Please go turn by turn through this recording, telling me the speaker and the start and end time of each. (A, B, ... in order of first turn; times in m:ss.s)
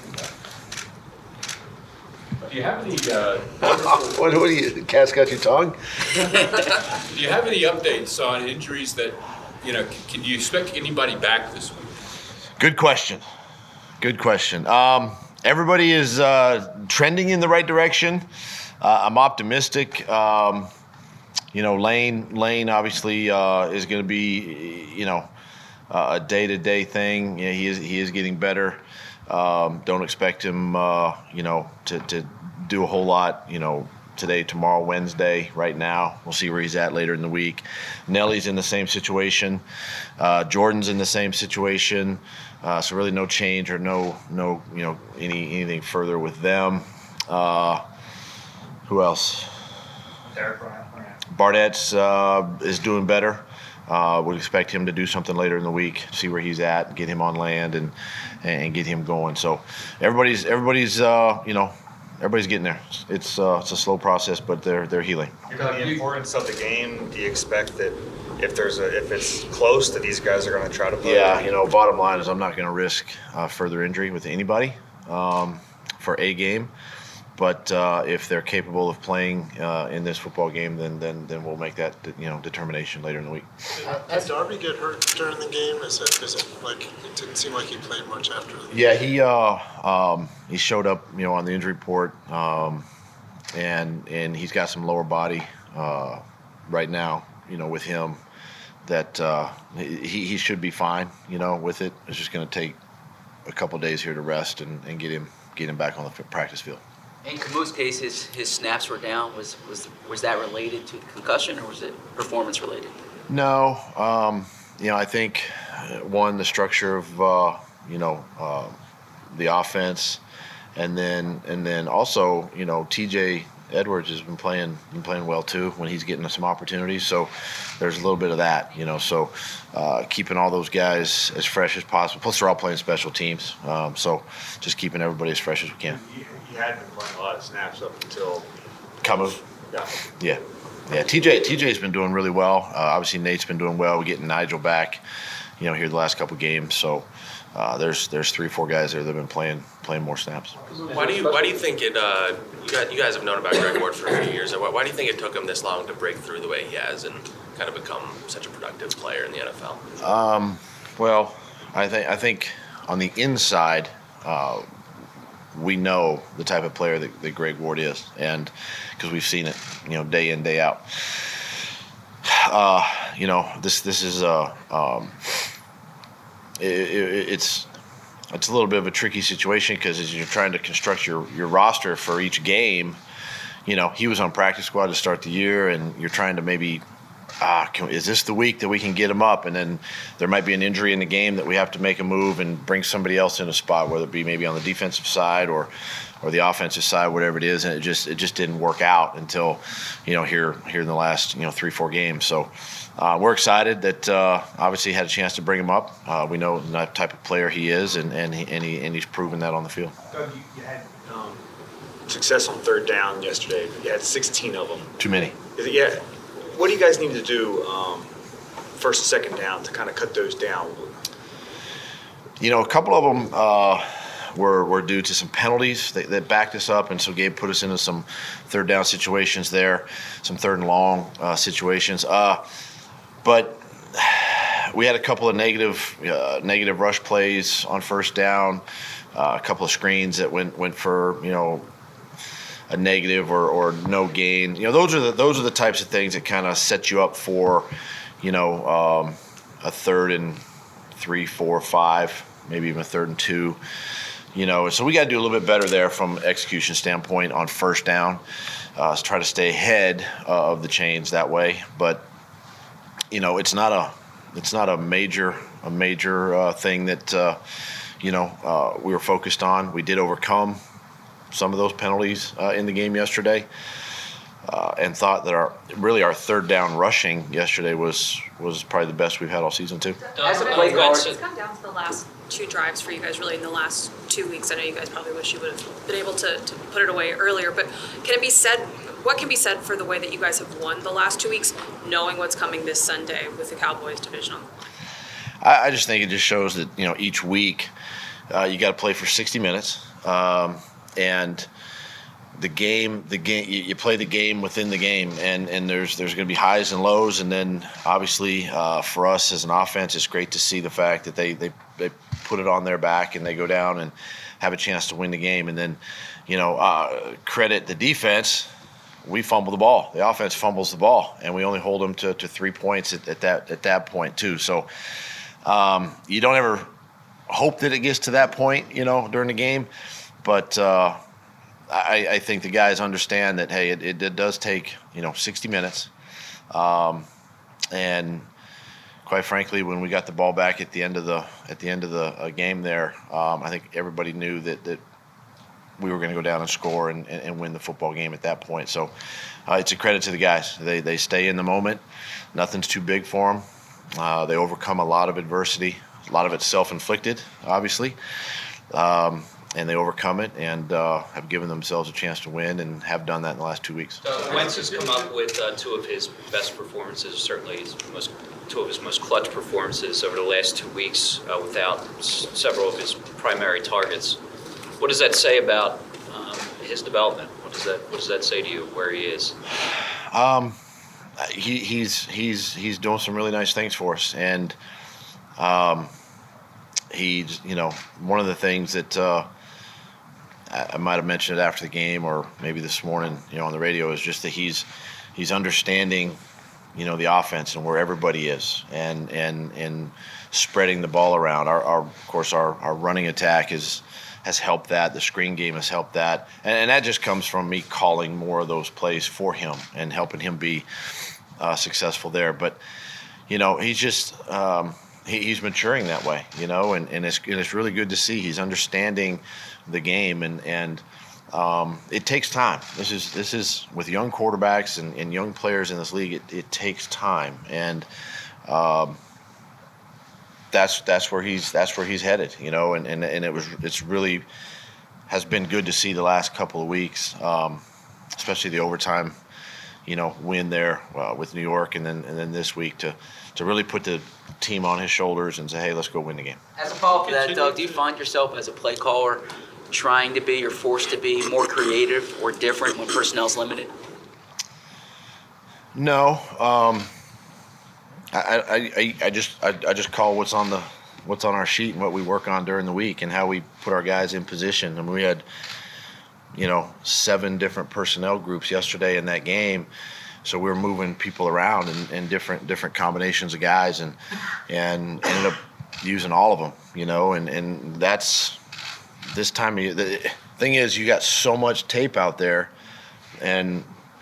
0:02.4-0:03.7 A
0:03.6-0:05.8 B
0:07.1-0:11.9 A
0:12.6-0:13.2 B
0:14.0-0:18.3 B
0:18.8-0:20.7 B
0:21.5-0:25.3 B
0:25.9-0:39.6 B
0:40.2-0:47.8 B
0:48.8-0:49.5 B
0:51.3-1:05.3 B
1:05.6-1:11.3 C
1:05.7-1:06.0 A
1:11.0-1:16.7 B
1:17.4-1:23.8 B
1:23.8-1:28.8 D
1:28.7-1:32.8 B
1:33.5-1:38.2 B
1:38.8-1:42.8 B
1:43.4-1:46.8 B
1:47.2-1:52.9 E
1:53.3-1:58.8 B
1:59.3-2:00.2 B
2:00.8-2:16.0 B
2:16.0-2:18.5 C
2:19.0-2:19.4 B
2:19.1-2:19.9 C
2:20.2-2:25.0 B
2:25.6-2:30.6 B
2:30.9-2:39.8 F
2:40.0-2:44.6 B
2:45.5-2:51.5 B
2:52.2-2:55.5 B
2:56.6-2:57.7 B
2:58.3-3:03.0 B
3:03.6-3:06.8 B
3:07.4-3:30.0 B
3:30.1-3:31.4 C
3:32.1-3:34.9 C
3:35.0-3:35.4 B
3:35.6-3:38.1 C
3:38.7-3:40.9 C
3:42.4-3:52.4 B
3:53.2-4:01.7 B
4:02.7-4:10.4 B
4:10.9-4:13.6 B
4:14.3-4:18.2 B
4:18.8-4:22.0 B
4:23.1-4:27.4 B
4:28.0-4:30.6 B
4:31.3-4:33.5 B
4:34.4-4:40.0 B
4:40.1-4:41.2 G
4:40.2-4:41.1 E
4:40.3-4:54.5 H
4:55.4-4:57.7 B
4:58.3-5:01.5 B
5:02.3-5:18.5 B
5:19.0-5:24.7 B
5:25.4-5:26.7 B
5:27.3-5:29.7 B
5:30.2-5:31.0 B
5:31.7-5:35.9 B
5:36.5-5:37.0 B
5:37.7-5:38.3 B
5:39.0-5:44.8 B
5:45.8-5:48.9 B
5:49.5-5:51.8 B
5:52.3-5:53.4 B
5:54.0-5:58.0 B
5:58.7-6:04.0 B
6:04.1-6:14.2 G
6:04.2-6:05.0 A
6:14.8-6:19.4 G
6:20.1-6:20.6 B
6:21.2-6:24.6 B
6:25.4-6:25.9 B
6:26.9-6:29.3 B
6:30.5-6:36.2 B
6:36.7-6:50.7 B
6:51.4-6:52.6 B
6:53.3-7:07.9 B
7:08.5-7:09.0 B
7:10.5-7:14.2 B
7:15.1-7:17.6 B
7:18.2-7:19.2 B
7:19.8-7:26.4 B
7:26.6-7:33.7 E
7:35.7-7:36.9 B
7:38.1-7:45.2 B
7:46.3-7:49.7 B
7:50.2-7:54.0 B
7:54.5-7:58.4 B
7:59.1-8:02.5 B
8:03.2-8:03.7 B